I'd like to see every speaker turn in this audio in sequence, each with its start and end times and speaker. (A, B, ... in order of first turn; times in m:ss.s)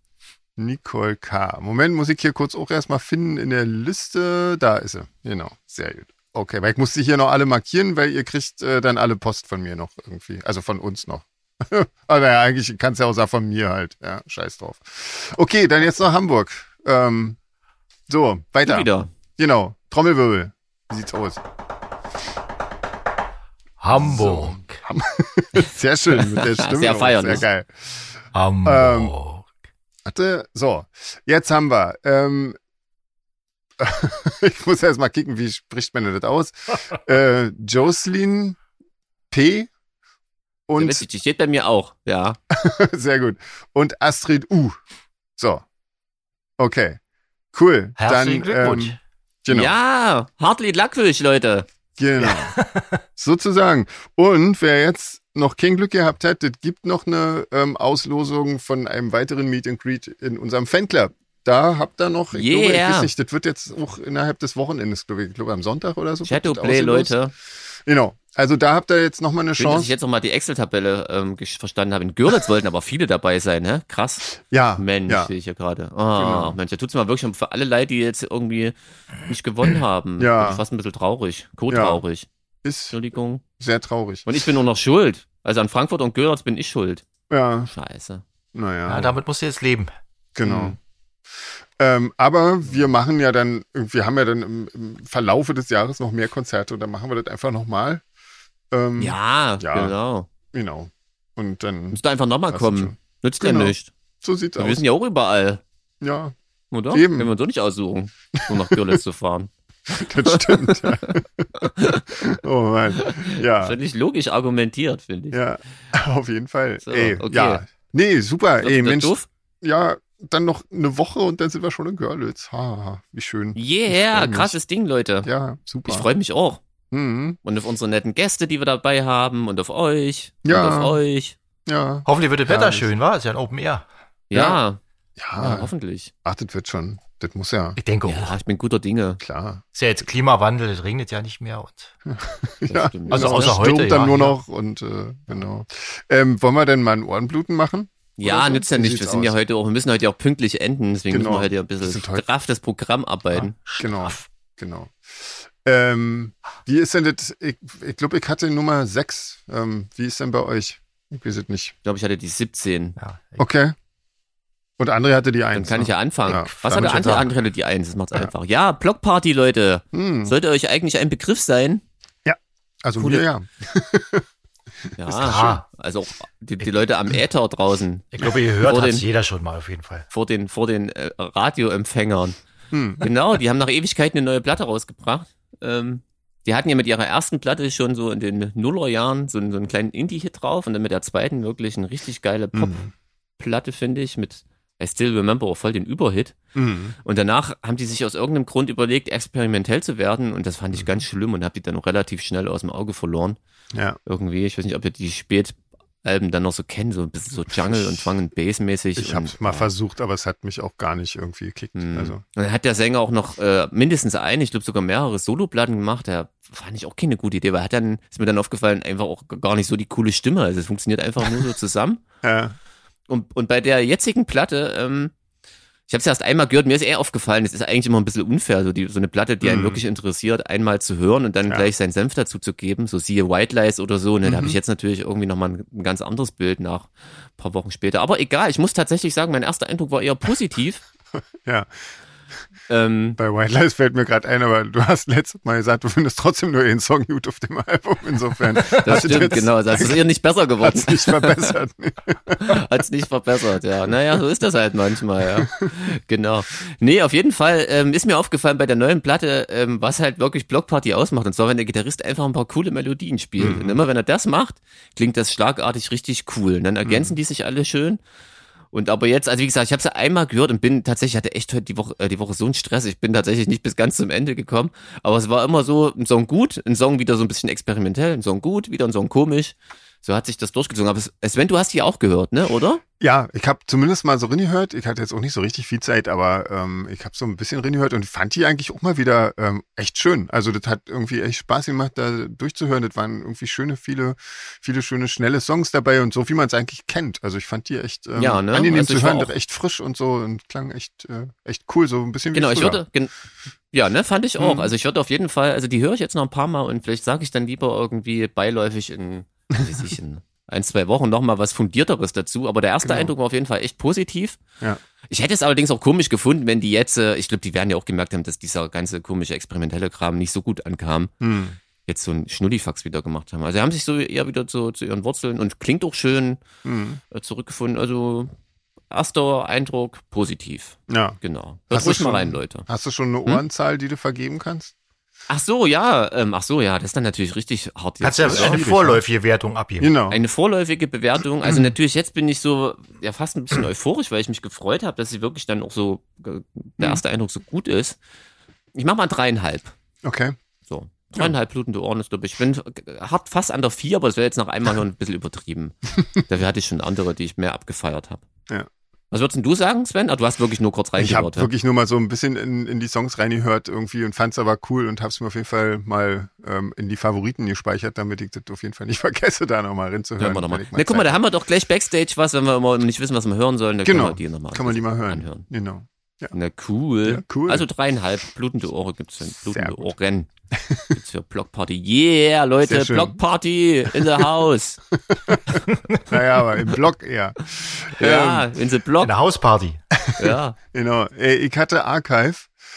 0:00.6-0:17.4 A
0:18.1-0:21.4 A
0:18.6-0:19.1 B
0:23.8-0:24.8 C
0:24.0-0:28.1 A
0:26.1-0:27.4 B
0:28.3-0:29.5 C
0:28.6-0:29.1 A
0:30.0-0:32.6 A
0:33.8-0:38.6 A
0:39.3-0:39.7 A
0:40.7-0:41.0 A
0:40.8-0:42.4 B
0:42.5-0:44.8 A
0:45.4-0:45.6 A
0:46.6-0:47.0 A
0:47.5-0:49.7 A
0:48.0-0:49.0 C
0:49.5-0:51.7 B
0:52.0-0:52.5 A
0:52.3-0:53.0 C
0:53.2-1:07.1 A
1:02.3-1:03.1 B
1:06.2-1:07.3 B
1:07.8-1:09.9 A
1:09.6-1:22.3 B
1:14.3-1:15.3 A
1:16.2-1:16.6 A
1:20.2-1:20.6 A
1:21.7-1:22.0 A
1:22.6-1:22.9 A
1:22.9-1:23.4 B
1:23.6-1:24.3 A
1:24.3-1:27.1 B
1:27.3-1:27.7 A
1:27.6-1:28.2 B
1:28.5-1:29.2 A
1:28.9-1:29.9 C
1:30.4-1:30.8 A
1:30.4-1:30.8 B
1:31.8-1:38.0 A
1:38.7-1:39.9 A
1:39.0-1:40.3 B
1:40.5-1:44.8 A
1:41.9-1:43.9 B
1:44.6-1:45.6 B
1:46.0-1:46.3 A
1:46.7-1:52.3 B
1:46.9-1:47.3 A
1:48.4-1:49.0 A
1:49.9-1:53.8 A
1:53.0-1:55.4 B
1:55.3-2:04.6 A
1:56.8-1:57.6 B
1:58.6-1:59.3 B
2:03.5-2:05.3 B
2:05.2-2:06.1 A
2:05.8-2:06.6 B
2:06.9-2:07.4 A
2:07.4-2:11.4 B
2:10.4-2:11.0 A
2:11.6-2:12.9 A
2:12.0-2:13.8 C
2:14.3-2:14.8 B
2:14.3-2:14.6 A
2:15.2-2:15.7 A
2:15.4-2:16.1 B
2:16.2-2:17.8 A
2:17.8-2:18.4 C
2:18.0-2:19.2 B
2:19.2-2:19.6 A
2:19.7-2:21.9 C
2:22.1-2:29.4 A
2:22.7-2:23.6 B
2:23.1-2:24.4 C
2:28.2-2:33.5 B
2:31.1-2:32.2 A
2:33.3-2:34.2 C
2:33.8-2:41.8 A
2:41.8-2:43.0 B
2:43.0-2:43.4 C
2:43.4-2:43.7 A
2:44.8-2:47.3 A
2:45.5-2:51.8 B
2:46.7-2:47.2 C
2:49.9-2:50.3 A
2:52.2-2:54.2 A
2:53.0-2:53.2 B
2:55.0-2:59.0 B
2:55.1-2:55.6 C
2:58.1-3:00.1 C
3:00.1-3:02.4 B
3:02.7-3:03.0 A
3:03.0-3:12.8 B
3:12.5-3:12.9 A
3:13.4-3:16.4 B
3:16.5-3:17.0 A
3:17.0-3:23.4 B
3:23.7-3:24.0 A
3:24.0-3:29.7 B
3:27.7-3:28.1 A
3:29.0-3:32.2 A
3:31.7-3:42.0 B
3:42.2-3:42.5 A
3:43.1-3:45.1 B
3:45.9-4:00.8 B
3:49.4-3:49.8 A
3:54.2-3:54.6 A
4:01.4-4:01.7 A
4:02.7-4:03.2 B
4:03.2-4:10.0 A
4:08.6-4:11.5 B
4:10.6-4:12.6 A
4:12.4-4:28.0 B
4:15.4-4:15.7 A
4:23.4-4:23.8 A
4:26.8-4:27.2 A
4:28.7-4:42.8 B
4:43.0-5:02.8 A
4:58.2-4:59.3 B
5:02.3-5:03.1 B
5:03.7-5:14.4 B
5:04.4-5:04.7 A
5:12.8-5:13.1 A
5:15.1-5:21.1 B
5:21.2-5:21.6 A
5:21.8-5:26.4 B
5:26.6-5:27.0 A
5:27.1-5:28.3 B
5:28.9-5:32.7 B
5:30.9-5:31.2 A
5:31.7-5:34.7 A
5:35.3-5:38.6 B
5:38.0-5:39.9 C
5:38.2-5:39.0 A
5:39.8-5:40.2 A
5:40.1-5:48.0 B
5:41.4-5:41.7 A
5:48.7-5:49.7 B
5:50.0-5:50.4 A
5:50.7-5:58.2 B
5:59.1-6:01.5 B
6:01.0-6:11.2 A
6:10.2-6:15.5 B
6:13.8-6:16.3 A
6:16.3-6:20.3 B
6:17.0-6:17.6 A
6:19.5-6:19.9 A
6:20.5-6:20.9 A
6:20.9-6:24.8 B
6:22.6-6:23.2 A
6:23.9-6:24.2 A
6:24.9-6:28.5 A
6:28.0-6:29.1 B
6:29.0-6:29.8 C
6:30.0-6:32.5 A
6:30.2-6:30.6 B